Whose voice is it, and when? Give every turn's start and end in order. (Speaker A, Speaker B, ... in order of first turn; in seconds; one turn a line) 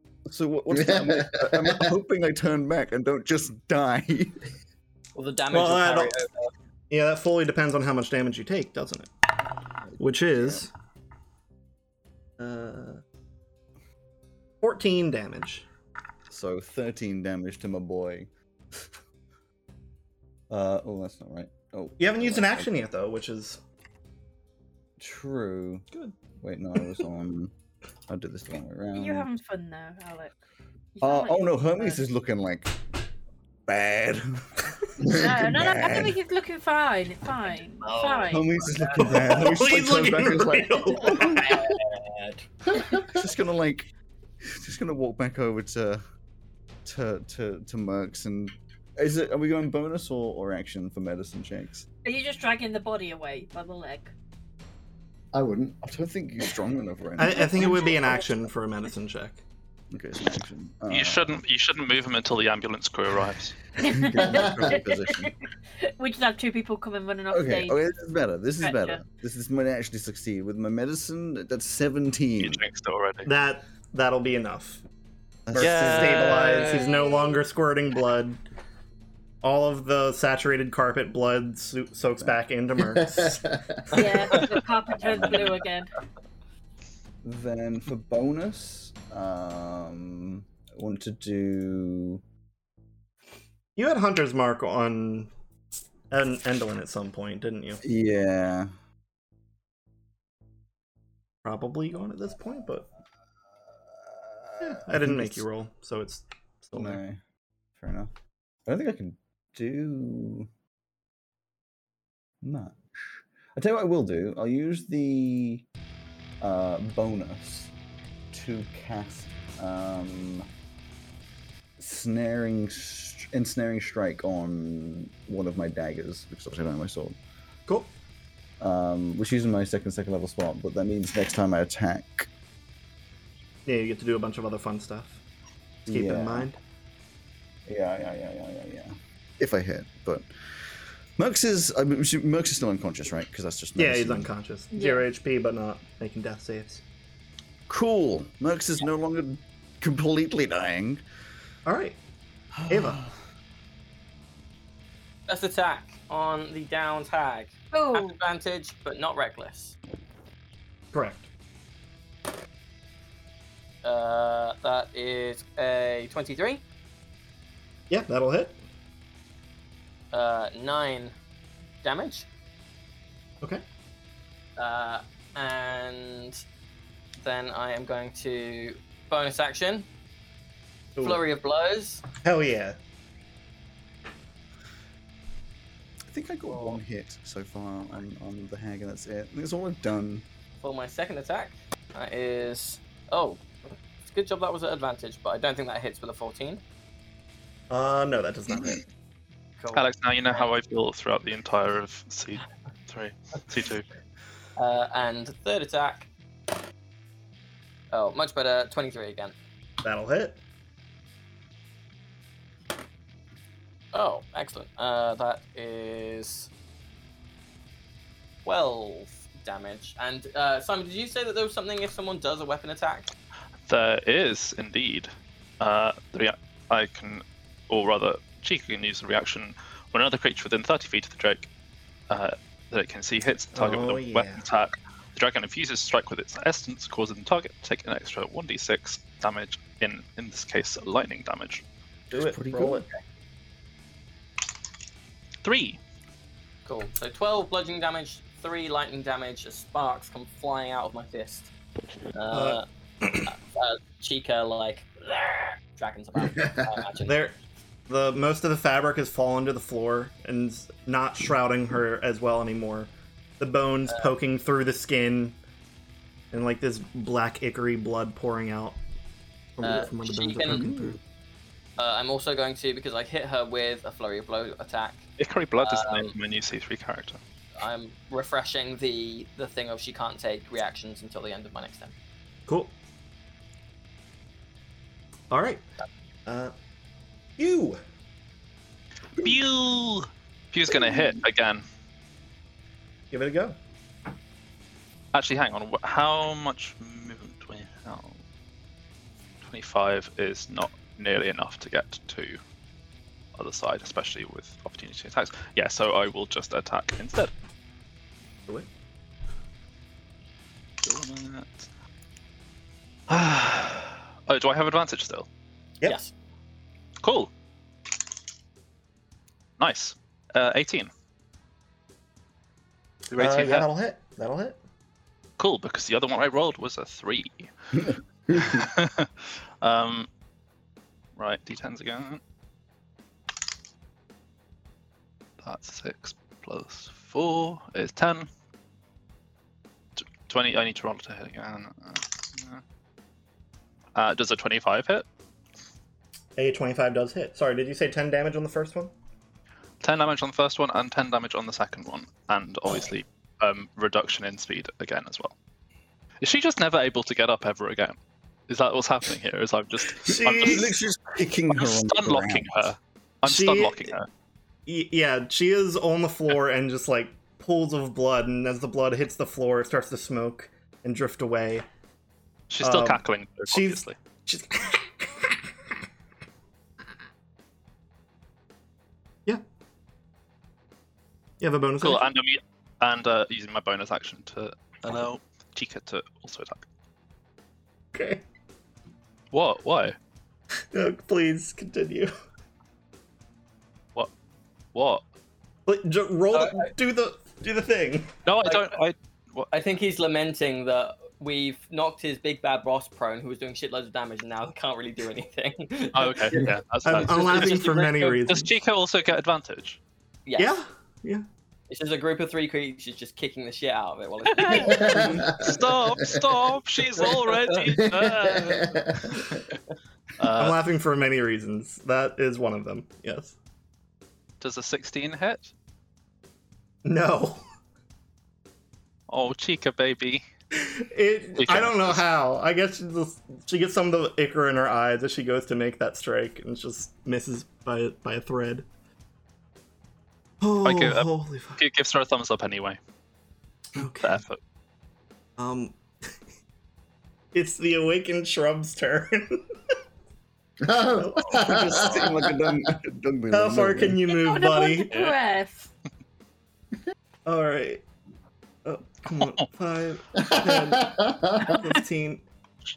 Speaker A: 0.3-4.4
Speaker B: 0.8-1.9
Speaker C: 5.2-6.5
Speaker D: 5.5-6.2
Speaker D: 6.9-9.1
Speaker A: 9.9-10.7
Speaker D: 10.0-10.7
Speaker D: 12.4-13.0
Speaker D: 14.6-15.7
Speaker A: 16.3-18.3
Speaker A: 20.5-22.7
Speaker D: 22.0-23.6
Speaker A: 25.0-25.9
Speaker A: 26.4-27.5
Speaker A: 28.1-29.3
Speaker E: 28.9-30.3
Speaker E: 30.9-32.0
Speaker A: 31.0-32.8
Speaker A: 33.7-36.2
Speaker E: 35.0-38.5
Speaker C: 37.8-39.5
Speaker A: 38.3-41.4
Speaker D: 39.0-41.8
Speaker C: 41.0-42.4
Speaker A: 42.9-43.9
Speaker A: 44.4-46.0
Speaker A: 46.9-51.9
Speaker E: 52.0-54.1
Speaker B: 55.3-55.8
Speaker A: 55.8-58.2
Speaker D: 57.2-59.4
Speaker E: 57.6-58.2
Speaker A: 59.9-61.4
Speaker F: 60.9-63.6
Speaker E: 63.8-67.8
Speaker A: 63.8-65.3
Speaker A: 67.3-72.6
Speaker E: 68.6-69.0
Speaker F: 72.4-73.3
Speaker D: 73.2-74.8
Speaker A: 75.5-76.3
Speaker D: 75.5-78.4
Speaker F: 75.6-76.9
Speaker E: 76.5-77.5
Speaker D: 79.4-83.4
Speaker B: 83.0-84.0
Speaker E: 83.9-85.9
Speaker A: 85.0-85.5
Speaker A: 87.2-92.2
Speaker D: 93.8-95.3
Speaker D: 96.1-97.8
Speaker A: 97.8-98.7
Speaker D: 101.4-102.9
Speaker A: 103.9-105.5
Speaker D: 104.6-107.0
Speaker A: 106.7-107.2
Speaker A: 107.8-108.1
Speaker A: 108.7-110.5
Speaker A: 112.4-115.7
Speaker A: 116.4-117.7
Speaker A: 118.3-120.5
Speaker A: 121.8-127.2
Speaker A: 128.6-132.3
Speaker D: 133.7-135.2
Speaker A: 135.9-136.5
Speaker D: 135.9-136.6
Speaker A: 137.7-140.3
Speaker A: 141.2-144.3
Speaker D: 143.8-146.8
Speaker E: 144.7-145.1
Speaker A: 147.7-151.0
Speaker D: 151.7-152.0
Speaker A: 152.6-153.1
Speaker D: 152.7-153.1
Speaker C: 155.3-159.8
Speaker E: 157.7-158.2
Speaker D: 160.9-161.3
Speaker C: 163.8-166.6
Speaker D: 167.9-168.6
Speaker C: 170.1-171.2
Speaker C: 171.8-172.3
Speaker C: 174.6-176.4
Speaker C: 177.2-179.9
Speaker D: 181.0-181.2
Speaker C: 181.0-182.1
Speaker D: 182.2-182.8
Speaker A: 186.1-190.2
Speaker C: 190.6-196.6
Speaker D: 197.7-198.8
Speaker C: 199.6-199.9
Speaker F: 199.7-203.8
Speaker C: 204.6-206.1
Speaker C: 207.9-209.3
Speaker D: 209.8-210.4
Speaker C: 213.9-216.5
Speaker C: 218.4-223.1
Speaker F: 223.7-231.5
Speaker F: 232.1-241.6
Speaker D: 233.5-234.4
Speaker A: 242.1-242.9
Speaker D: 242.1-242.9
Speaker F: 245.4-245.8
Speaker C: 246.7-251.5
Speaker C: 252.1-252.6
Speaker D: 252.3-253.3
Speaker C: 253.2-257.2
Speaker D: 257.1-257.4
Speaker D: 257.9-265.4
Speaker D: 266.3-268.8
Speaker D: 269.6-271.0
Speaker C: 269.6-270.7
Speaker A: 270.5-271.0
Speaker C: 271.8-275.1
Speaker F: 275.2-277.2
Speaker C: 275.6-276.1
Speaker C: 277.6-281.9
Speaker D: 282.5-282.7
Speaker D: 285.3-285.6
Speaker D: 286.3-286.5
Speaker D: 287.4-287.8
Speaker F: 289.2-291.6
Speaker D: 293.1-293.6
Speaker F: 295.1-298.2
Speaker F: 299.4-302.4
Speaker F: 303.4-307.3
Speaker F: 310.8-311.7
Speaker F: 313.1-315.3
Speaker C: 315.8-316.1
Speaker F: 317.0-317.3
Speaker F: 319.6-320.9
Speaker F: 323.1-323.7
Speaker D: 323.1-324.6
Speaker F: 325.4-327.5
Speaker F: 328.3-330.1
Speaker F: 331.2-332.2
Speaker F: 335.4-338.3
Speaker F: 340.0-342.6
Speaker F: 343.9-345.1
Speaker D: 346.4-348.9
Speaker F: 349.8-355.3
Speaker F: 356.2-358.0
Speaker F: 358.5-360.7
Speaker D: 360.1-360.7
Speaker A: 360.1-362.7
Speaker F: 361.5-364.1
Speaker D: 363.2-364.0
Speaker D: 364.7-371.6
Speaker F: 372.5-373.9
Speaker D: 372.6-375.5
Speaker D: 381.4-382.1
Speaker F: 381.8-386.6
Speaker D: 387.9-388.2
Speaker F: 389.3-390.0
Speaker D: 390.7-392.1
Speaker F: 394.7-395.0
Speaker D: 395.7-398.1
Speaker C: 396.3-396.7
Speaker F: 398.3-399.5
Speaker C: 398.4-398.7
Speaker C: 399.5-406.4
Speaker F: 405.9-409.8
Speaker D: 406.8-408.5
Speaker C: 406.9-408.2
Speaker C: 410.3-410.5
Speaker D: 410.4-411.2
Speaker C: 411.7-415.2
Speaker F: 414.3-419.4
Speaker B: 414.5-416.2
Speaker C: 417.0-417.7
Speaker B: 417.8-419.4
Speaker F: 420.2-420.6
Speaker D: 420.4-423.4
Speaker F: 424.4-425.5
Speaker D: 426.8-427.4
Speaker F: 429.1-430.2
Speaker D: 430.5-438.6
Speaker F: 431.4-432.0
Speaker D: 440.4-441.6
Speaker F: 440.6-442.8
Speaker D: 443.7-444.2
Speaker F: 444.0-444.4
Speaker D: 445.4-445.8
Speaker D: 447.3-449.4
Speaker B: 450.6-452.6
Speaker D: 450.9-451.8
Speaker A: 451.3-454.0
Speaker D: 453.3-454.9
Speaker E: 454.1-455.7
Speaker F: 454.9-455.2
Speaker D: 457.3-457.8
Speaker D: 458.6-462.2
Speaker F: 459.2-459.4
Speaker B: 460.2-461.6